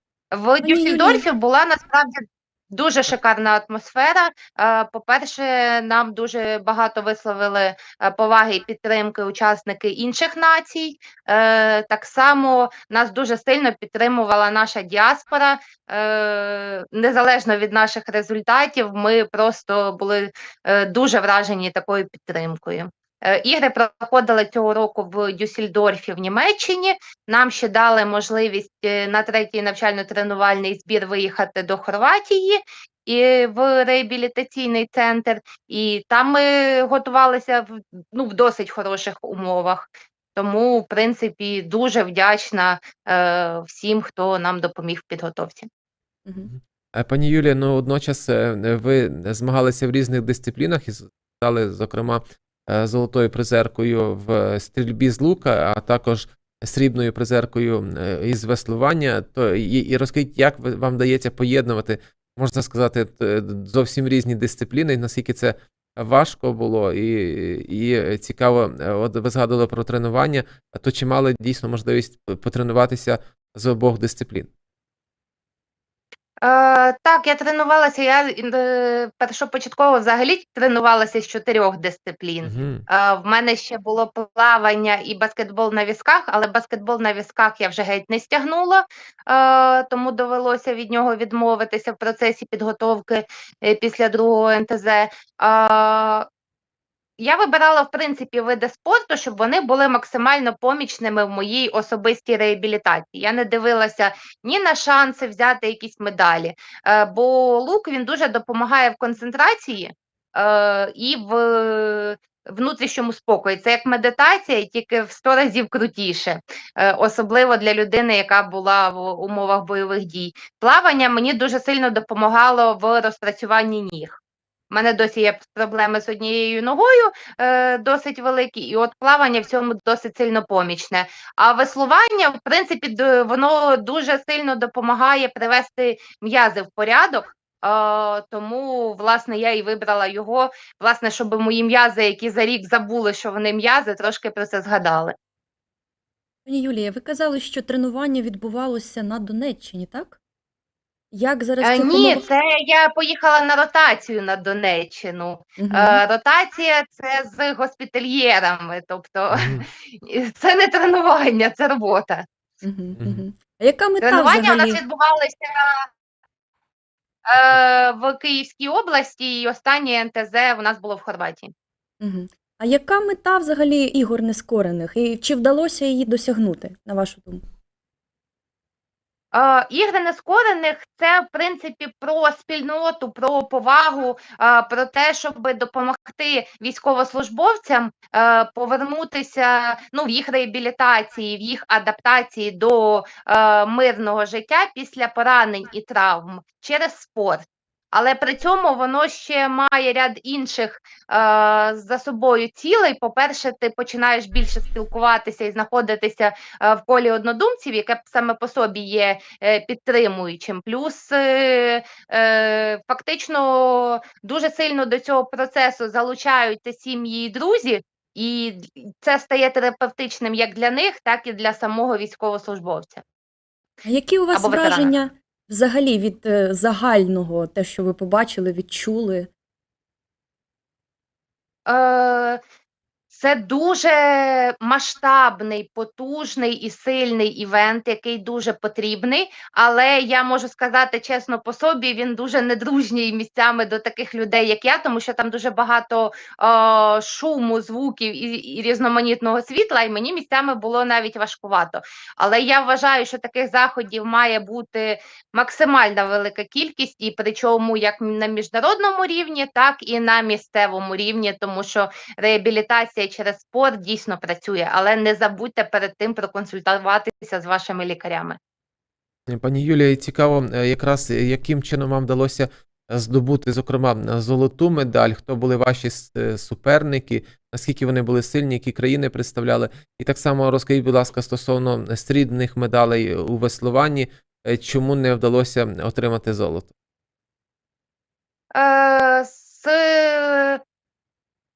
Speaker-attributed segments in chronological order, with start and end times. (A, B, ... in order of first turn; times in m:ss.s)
0:00.3-0:45.7 A
0:00.6-0:01.2 B
0:46.2-0:46.5 B
0:46.5-1:14.5 C
1:16.4-1:36.2 A
1:22.4-1:22.8 C
1:37.2-2:04.2 A
2:04.7-2:25.1 A
2:26.4-2:30.2 B
2:31.1-2:32.2 B
2:31.6-2:42.2 A
2:35.6-2:36.0 B
2:39.3-2:39.6 C
2:42.6-2:44.8 B
2:44.0-2:45.9 A
2:47.3-2:51.5 A
2:52.0-2:57.4 B
2:59.3-3:43.0 A
3:43.8-3:49.3 B
3:44.3-3:45.0 A
3:51.6-3:52.4 A
3:53.1-4:28.4 A
4:29.3-4:46.7 C
4:48.5-4:50.6 A